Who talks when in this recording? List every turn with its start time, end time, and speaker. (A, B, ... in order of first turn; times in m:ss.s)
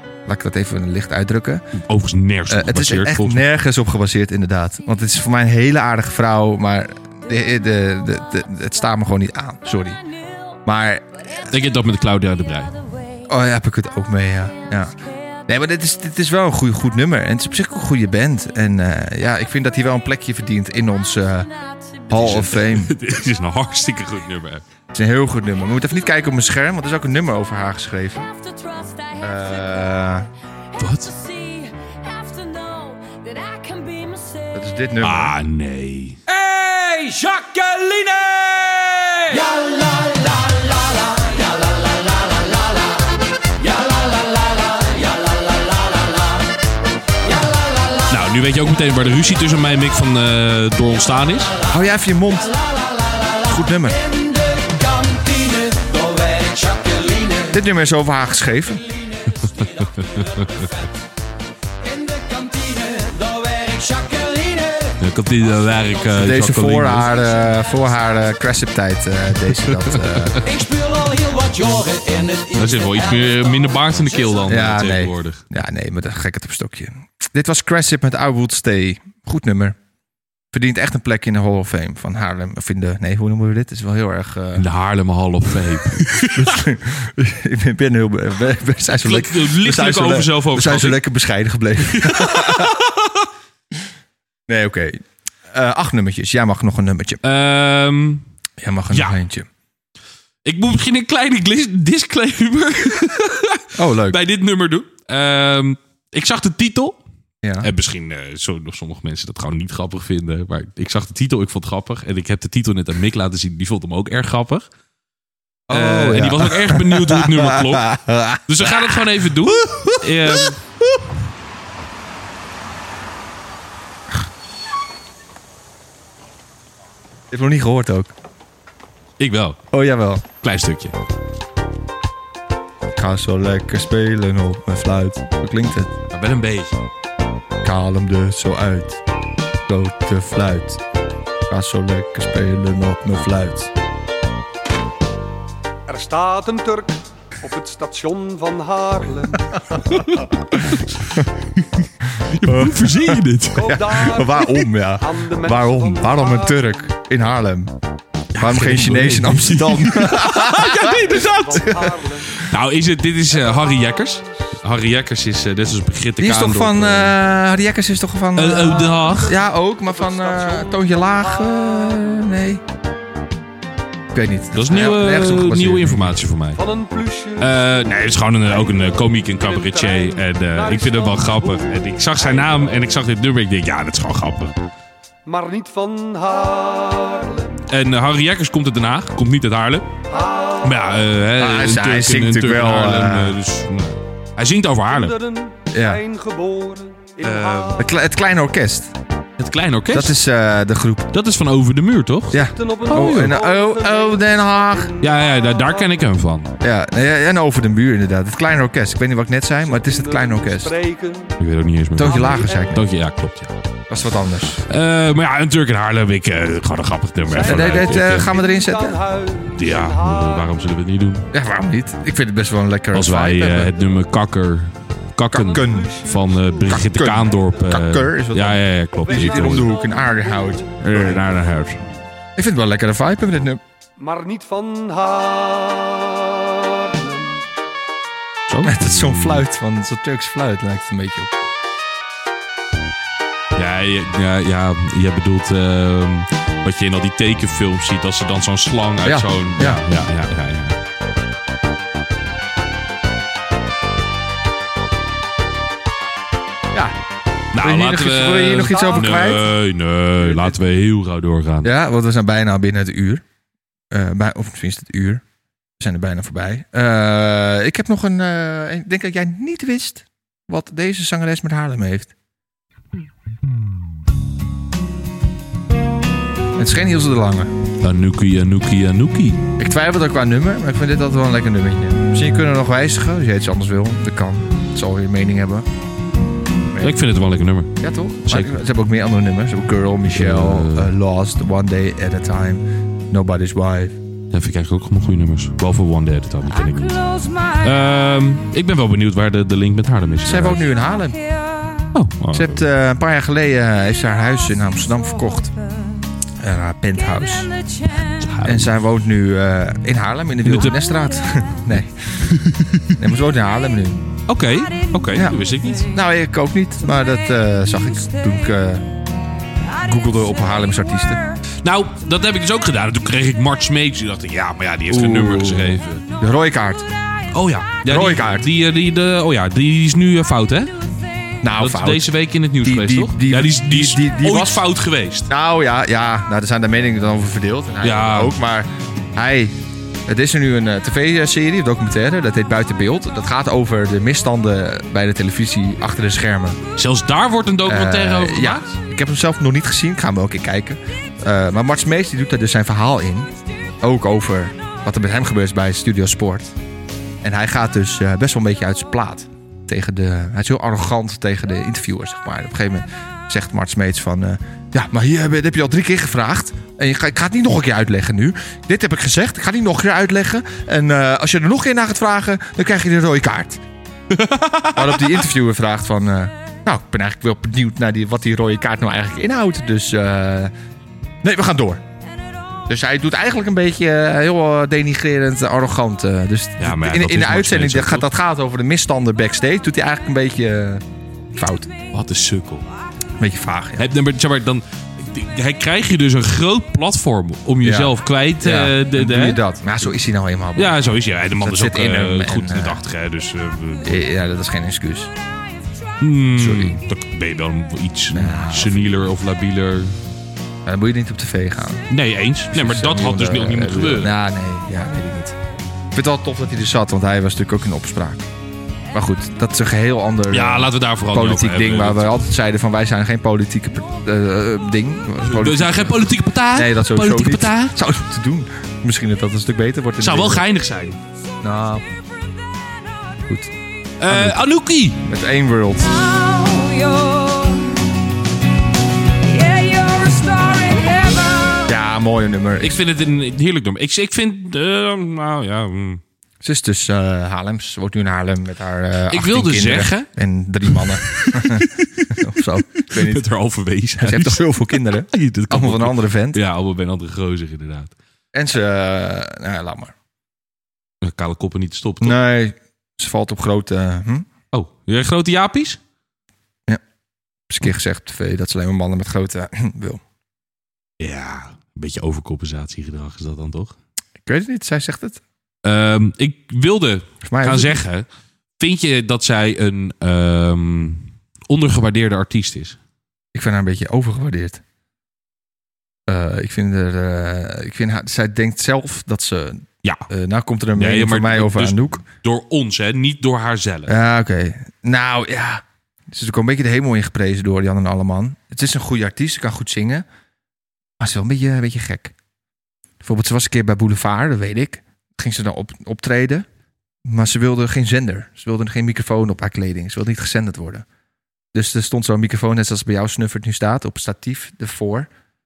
0:00.3-0:01.6 A
0:01.9-0:03.5 B
0:02.5-0:10.0 A
0:10.7-0:11.4 A
0:11.5-0:12.7 B
0:13.2-0:15.0 A
0:15.5-0:21.5 A
0:21.7-0:22.1 C
0:22.1-0:23.0 A
0:22.1-0:24.7 B
0:24.9-0:28.3 A
0:28.3-0:29.8 C
0:29.2-0:30.3 A
0:30.8-0:31.1 B
0:30.9-0:34.6 C
0:34.5-0:35.4 A
0:35.0-0:36.2 B
0:37.2-0:37.6 C
0:39.4-0:41.6 C
0:43.7-0:44.9 C
0:48.1-0:51.6 B
0:51.7-0:52.5 A
0:53.4-0:54.0 A
0:54.7-0:57.4 C
0:57.5-0:58.8 A
0:59.3-1:00.7 B
1:02.2-1:04.9 C
1:05.0-1:07.1 B
1:06.1-1:10.5 A
1:09.7-1:10.4 B
1:12.5-1:15.4 B
1:14.5-1:19.8 A
1:20.5-1:24.7 A
1:24.6-1:26.6 B
1:26.2-1:32.8 A
1:29.0-1:31.0 B
1:31.8-1:33.2 B
1:34.5-1:37.2 A
1:37.2-1:38.2 B
1:38.6-1:39.5 A
1:38.9-1:39.2 B
1:40.4-1:47.0 B
1:43.8-1:44.2 A
1:47.4-1:47.7 A
1:47.6-1:54.7 B
1:55.7-2:01.0 A
1:55.7-2:00.6 B
2:07.3-2:08.1 A
2:09.2-2:09.6 B
2:09.7-2:10.2 A
2:10.4-2:11.0 B
2:12.9-2:16.0 A
2:16.1-2:16.7 B
2:17.6-2:19.0 A
2:19.7-2:20.8 A
2:21.5-2:23.7 A
2:25.9-2:29.6 D
2:29.9-2:33.8 B
2:30.8-2:31.2 A
2:32.4-2:37.8 A
2:33.5-2:36.9 D
2:38.3-2:47.2 B
2:38.4-2:40.9 A
2:40.9-2:42.4 D
2:43.3-2:44.5 D
2:46.2-2:52.6 A
2:48.4-2:49.4 B
2:49.7-2:52.3 D
2:54.1-2:56.2 A
2:54.5-2:56.6 B
2:56.6-3:02.9 D
2:57.4-3:04.6 B
3:05.3-3:07.6 D
3:07.7-3:09.9 B
3:10.1-3:11.1 D
3:10.6-3:15.2 B
3:11.4-3:13.4 A
3:14.9-3:18.0 D
3:15.7-3:16.0 A
3:17.2-3:17.8 B
3:17.8-3:18.9 A
3:19.4-3:20.2 B
3:19.9-3:21.1 A
3:21.1-3:23.4 B
3:22.3-3:24.9 A
3:22.4-3:26.1 D
3:25.0-3:26.5 B
3:26.6-3:30.7 A
3:29.6-3:31.4 D
3:31.4-3:33.6 B
3:32.0-3:32.8 A
3:32.0-3:32.8 D
3:33.9-3:34.7 A
3:34.7-3:38.3 B
3:37.3-3:40.6 D
3:37.4-3:39.0 A
3:39.5-3:41.3 B
3:41.3-3:43.7 A
3:42.9-3:49.7 B
3:45.3-3:46.8 D
3:45.3-3:46.0 A
3:46.7-3:51.3 A
3:49.0-3:51.1 D
3:50.8-3:51.8 B
3:52.4-3:53.6 A
3:54.0-3:57.5 D
3:58.5-3:59.5 B
3:58.6-4:01.3 A
4:03.6-4:10.8 B
4:09.0-4:09.8 A
4:16.7-4:17.0 A
4:17.5-4:21.7 B
4:17.6-4:19.5 A
4:18.6-4:19.6 D
4:21.6-4:23.2 A
4:23.9-4:25.2 A
4:25.8-4:32.1 A
4:36.6-4:37.5 A
4:37.8-4:39.4 B
4:39.6-4:45.7 A
4:46.7-4:47.0 A
4:46.8-4:48.6 B
4:47.8-4:54.0 A
4:50.1-4:50.9 B
4:54.3-4:57.1 B
4:57.0-4:57.6 C
4:57.6-5:00.6 B
5:00.2-5:01.2 A
5:01.9-5:02.7 B
5:02.3-5:05.5 A
5:06.4-5:07.5 A
5:08.1-5:08.7 B
5:08.4-5:12.3 A
5:10.4-5:10.8 B
5:12.2-5:13.0 B
5:13.0-5:14.1 A
5:14.3-5:15.9 B
5:15.1-5:15.4 A
5:15.9-5:18.9 A
5:19.8-5:21.3 A
5:21.6-5:26.0 B
5:24.9-5:26.9 A
5:27.3-5:30.8 B
5:27.8-5:28.5 A
5:31.4-5:34.7 A
5:31.6-5:35.3 B
5:35.3-5:39.6 A
5:37.8-5:38.4 B
5:40.1-5:46.6 A
5:46.8-5:48.8 B
5:47.7-5:56.5 A
5:57.2-6:13.6 A
6:14.1-6:15.2 B
6:14.8-6:20.5 A
6:21.2-6:21.8 A
6:22.7-6:31.7 A
6:26.6-6:28.1 B
6:31.9-6:32.6 B
6:33.2-6:33.9 A
6:33.8-6:39.4 B
6:37.6-6:40.8 A
6:40.6-6:44.0 B
6:41.3-6:42.8 A
6:43.8-6:45.1 A
6:46.0-6:49.9 B
6:46.4-6:46.8 A
6:48.1-6:49.0 A
6:50.7-6:51.9 A
6:51.9-6:54.1 B
6:52.5-6:55.4 A
6:55.9-6:58.2 A
6:58.9-7:10.5 A
7:00.3-7:02.1 B
7:05.2-7:07.8 B
7:10.0-7:11.0 B
7:11.4-7:11.9 A
7:13.3-7:13.5 A
7:14.0-7:15.0 B
7:14.1-7:14.5 A
7:15.0-7:16.1 A
7:15.9-7:17.9 C
7:19.2-7:21.7 C
7:21.7-7:22.8 A
7:22.6-7:26.0 B
7:26.4-7:33.3 A
7:29.1-7:30.1 B
7:30.7-7:37.9 B
7:34.0-7:36.4 A
7:38.3-7:39.9 A
7:41.0-7:42.2 B
7:42.0-7:44.3 A
7:44.5-7:45.8 B
7:47.5-7:50.0 A
7:51.0-7:53.7 B
7:54.2-7:55.2 A
7:55.6-7:58.1 B
7:57.2-7:57.8 A
7:58.6-8:02.8 B
8:03.3-8:04.6 A
8:06.1-8:12.0 A
8:10.8-8:14.0 B
8:13.9-8:20.1 A
8:21.0-8:22.1 A
8:23.0-8:26.5 A
8:27.0-8:30.9 A
8:31.5-8:35.1 A